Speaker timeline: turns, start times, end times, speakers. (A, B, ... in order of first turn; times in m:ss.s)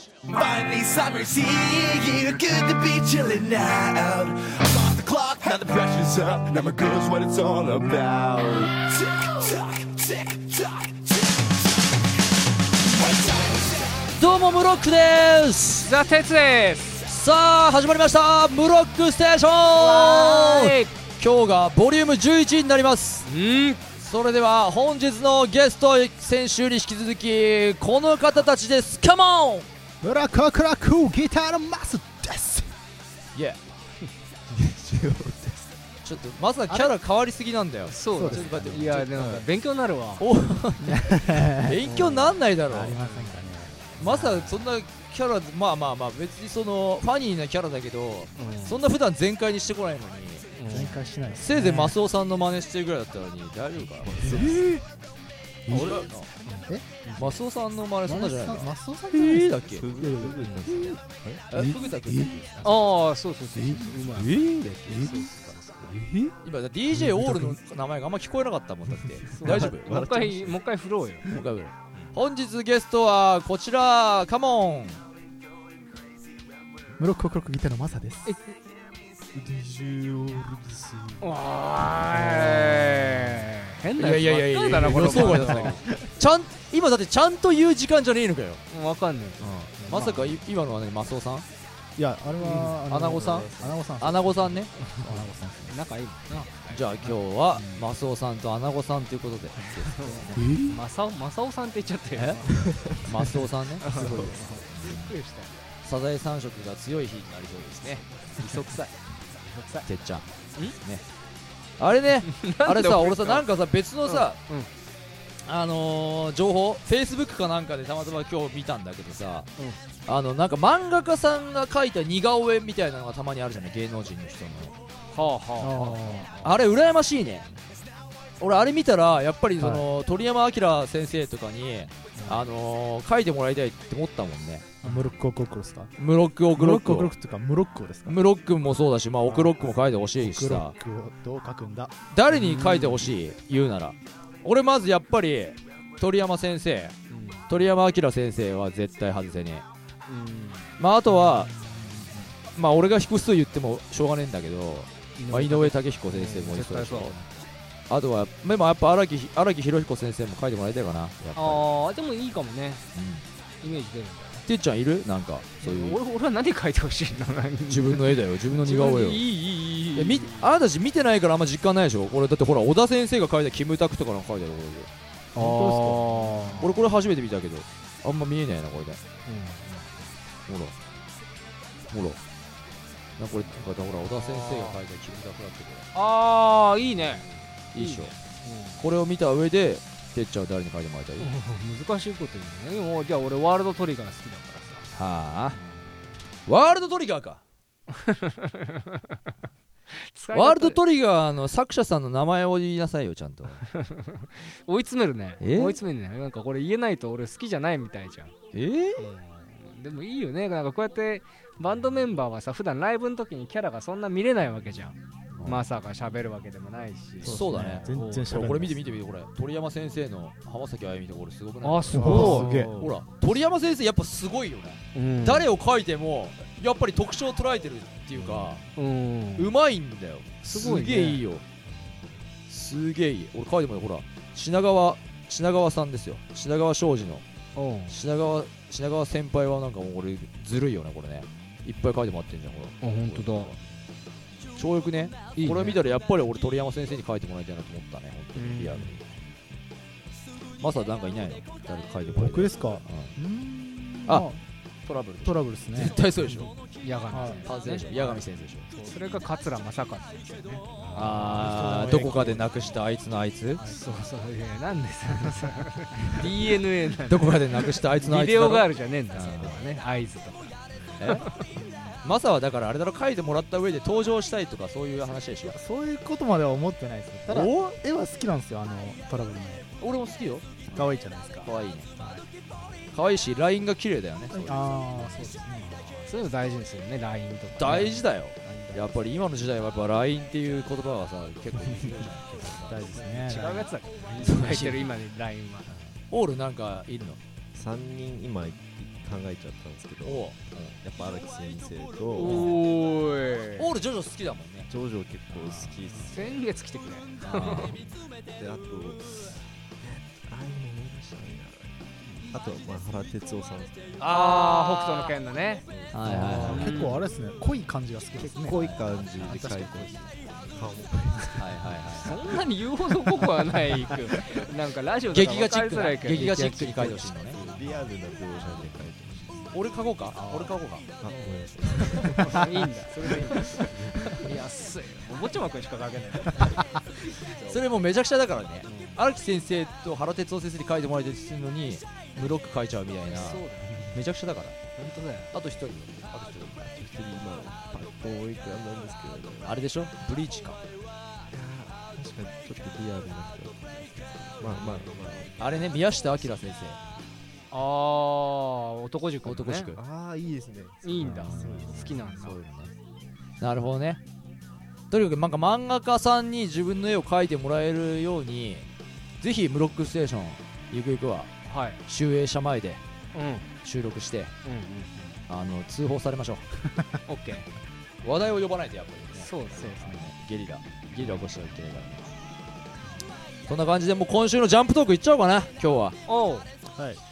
0:00.3-0:11.3 A
0:13.0-0:13.9 A
0:14.1-0:15.9 B
0:15.8-0:17.1 C
0:17.0-0:23.3 B
0:19.8-0:20.9 C
0:23.3-0:23.8 C
0:24.0-0:29.7 B
0:30.0-0:32.7 D
0:33.4-0:33.6 B
0:34.5-0:35.7 E
0:36.0-0:39.5 B
0:37.9-0:40.3 C
0:38.1-0:39.0 D
0:40.2-0:43.0 B
0:40.8-0:41.9 D
0:41.8-0:42.4 C
0:42.7-0:44.2 D
0:43.0-0:43.4 C
0:44.0-0:54.5 B
0:44.1-0:44.6 C
0:48.4-0:48.8 C
0:50.6-0:51.0 C
0:50.7-0:52.0 D
0:54.0-0:54.8 E
0:54.4-0:54.8 D
0:55.7-0:56.0 D
0:55.7-0:56.1 E
0:55.7-0:56.3 B
0:56.4-0:57.4 C
0:57.2-0:59.9 B
0:58.0-1:01.0 D
0:59.7-1:01.6 E
1:01.5-1:02.9 B
1:01.5-1:02.4 D
1:02.6-1:06.0 C
1:03.5-1:06.3 D
1:04.2-1:05.1 B
1:06.4-1:10.1 B
1:06.9-1:07.6 D
1:09.4-1:11.3 C
1:09.4-1:10.6 E
1:11.3-1:15.0 B
1:17.0-1:18.4 D
1:18.3-1:18.5 C
1:19.3-1:21.2 E
1:21.2-1:25.8 C
1:22.0-1:23.4 D
1:24.0-1:28.6 B
1:25.7-1:26.0 D
1:28.7-1:30.3 C
1:29.4-1:31.5 B
1:32.0-1:35.8 D
1:32.4-1:33.7 E
1:32.8-1:34.9 B
1:35.7-1:37.1 C
1:36.7-1:40.4 B
1:39.7-1:42.6 C
1:40.4-1:40.8 D
1:42.1-1:42.5 B
1:42.5-1:43.3 E
1:43.0-1:45.1 B
1:43.8-1:45.6 C
1:43.9-1:44.4 E
1:45.8-1:48.8 B
1:48.4-1:49.9 C
1:49.8-1:51.0 B
1:51.8-1:54.4 B
1:52.2-1:53.5 C
1:54.0-1:54.7 C
1:55.4-1:59.5 B
2:00.1-2:04.8 B
2:05.1-2:06.6 C
2:05.6-2:06.4 D
2:06.4-2:07.5 B
2:08.4-2:14.8 B
2:09.6-2:09.9 D
2:12.2-2:12.4 C
2:14.8-2:15.9 D
2:16.0-2:17.1 B
2:16.5-2:18.2 D
2:18.1-2:20.8 B
2:19.2-2:21.9 D
2:22.1-2:27.0 B
2:22.3-2:23.1 C
2:27.1-2:27.6 C
2:27.5-2:29.6 B
2:30.1-2:30.7 C
2:30.8-2:31.5 B
2:32.6-2:37.2 B
2:35.2-2:37.5 C
2:37.9-2:41.7 B
2:41.4-2:42.9 C
2:43.0-2:43.2 B
2:43.6-2:44.4 C
2:44.4-2:46.0 B
2:45.6-2:50.5 C
2:47.7-2:49.3 B
2:49.9-2:54.9 B
2:55.4-2:56.7 D
2:55.4-2:56.7 C
2:56.6-2:59.0 B
2:59.3-3:00.0 C
3:00.5-3:00.8 B
3:01.9-3:02.2 B
3:03.2-3:05.9 B
3:04.1-3:04.8 C
3:06.0-3:08.8 C
3:07.7-3:08.1 B
3:08.8-3:11.3 B
3:11.2-3:14.9 C
3:14.9-3:15.6 B
3:16.5-3:17.4 B
3:17.9-3:19.3 C
3:19.9-3:20.8 C
3:20.3-3:23.6 B
3:23.7-3:28.3 C
3:25.4-3:25.8 B
3:28.5-3:29.1 B
3:29.0-3:38.3 C
3:35.3-3:35.6 B
3:37.2-3:38.9 D
3:37.2-3:48.6 B
3:41.6-3:42.8 C
3:41.9-3:42.9 D
3:44.9-3:45.5 C
3:48.2-3:48.6 E
3:48.8-3:49.6 C
3:49.4-3:51.4 B
3:50.4-3:51.2 C
3:52.5-3:57.2 B
3:57.6-3:58.0 C
3:57.9-4:03.6 B
4:02.8-4:03.5 C
4:04.6-4:09.0 B
4:05.4-4:05.8 C
4:08.4-4:09.1 C
4:10.6-4:13.1 B
4:12.1-4:14.4 D
4:14.9-4:16.5 B
4:15.2-4:16.0 D
4:16.3-4:22.6 C
4:17.1-4:17.4 D
4:17.4-4:18.7 B
4:20.9-4:23.6 B
4:21.3-4:22.1 D
4:23.6-4:30.5 C
4:27.0-4:29.7 B
4:31.0-4:31.3 B
4:31.1-4:31.4 C
4:32.0-4:35.6 B
4:35.5-4:39.7 D
4:37.3-4:37.8 B
4:39.8-4:40.9 B
4:40.7-4:42.2 D
4:41.4-4:41.9 B
4:42.9-4:45.3 B
4:44.3-4:45.8 D
4:45.6-4:48.1 C
4:47.6-4:52.8 B
4:48.4-4:48.9 D
4:52.6-4:53.7 D
4:52.9-4:55.8 C
4:54.2-4:54.9 B
4:56.1-4:57.2 B
4:57.5-5:02.6 E
5:00.0-5:00.8 B
5:02.1-5:03.7 C
5:02.2-5:02.6 B
5:03.6-5:04.7 B
5:04.7-5:06.4 E
5:06.1-5:07.7 C
5:07.2-5:07.7 B
5:07.4-5:11.7 E
5:12.3-5:14.0 E
5:14.0-5:15.1 B
5:14.1-5:15.7 C
5:15.7-5:16.8 E
5:15.9-5:16.8 B
5:16.0-5:20.1 D
5:16.4-5:17.0 C
5:18.2-5:22.4 E
5:18.6-5:18.8 B
5:21.4-5:22.2 B
5:22.0-5:27.1 C
5:23.2-5:24.4 E
5:25.1-5:27.5 B
5:27.3-5:29.5 E
5:29.5-5:30.9 B
5:31.0-5:34.4 E
5:31.1-5:37.3 C
5:37.4-5:44.6 B
5:38.7-5:39.0 C
5:43.1-5:44.0 C
5:44.8-5:45.3 C
5:45.3-5:46.6 B
5:46.5-5:49.6 E
5:49.4-5:50.6 B
5:51.3-5:55.4 E
5:55.4-5:56.8 B
5:57.5-5:59.8 C
5:59.2-5:59.8 B
5:59.7-6:02.0 E
6:00.8-6:02.4 C
6:01.0-6:02.7 B
6:03.4-6:04.0 B
6:04.9-6:08.6 B
6:09.2-6:11.3 B
6:11.4-6:11.8 C
6:11.9-6:12.8 B
6:13.1-6:13.5 C
6:13.6-6:14.3 B
6:14.4-6:15.2 C
6:15.3-6:16.5 B
6:16.7-6:17.0 D
6:17.1-6:17.5 C
6:18.0-6:22.1 B
6:19.2-6:20.0 C
6:23.5-6:26.0 B
6:26.1-6:26.5 C
6:26.8-6:27.0 D